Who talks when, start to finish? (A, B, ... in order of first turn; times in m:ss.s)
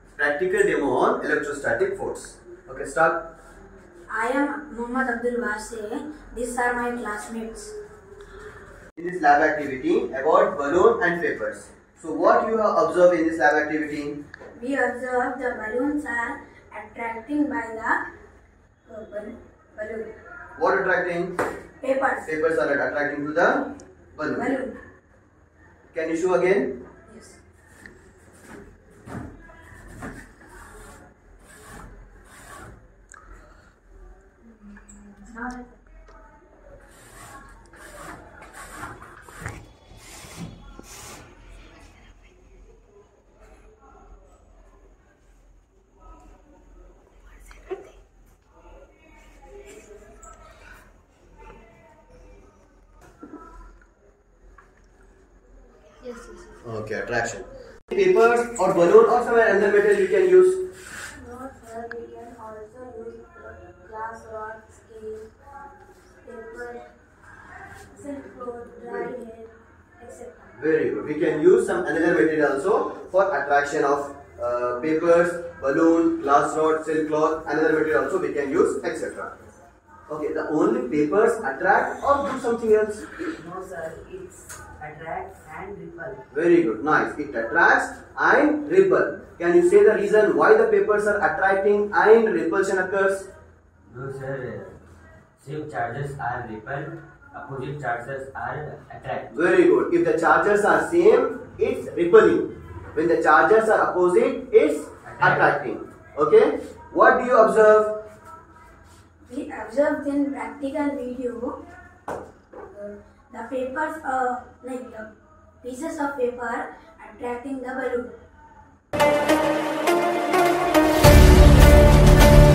0:00.2-0:03.2 A
0:04.1-0:07.8 B
0:09.0-0:14.2 A
0:14.5-0:18.0 B
0:18.9-0:20.1 B
0:20.6-0:21.4 A
0:21.8-0:22.2 B
0:22.2-0:24.5 A
0:24.4-0:24.8 B
0:25.9-0:26.8 A
0:27.1-0:27.4 B
0:34.7-0:35.7 B
0:56.0-0:56.4 B
0:56.6-1:00.6 A
1:01.2-1:05.3 B
1:06.2-1:06.9 B
1:07.9-1:10.5 B
1:10.6-1:19.4 A
1:20.1-1:23.1 A
1:23.2-1:26.2 C
1:26.3-1:33.3 A
1:33.9-1:34.8 D
1:35.4-1:39.3 D
1:39.3-1:48.0 A
1:45.0-1:45.5 D
1:49.2-1:51.6 B
1:52.7-1:58.1 B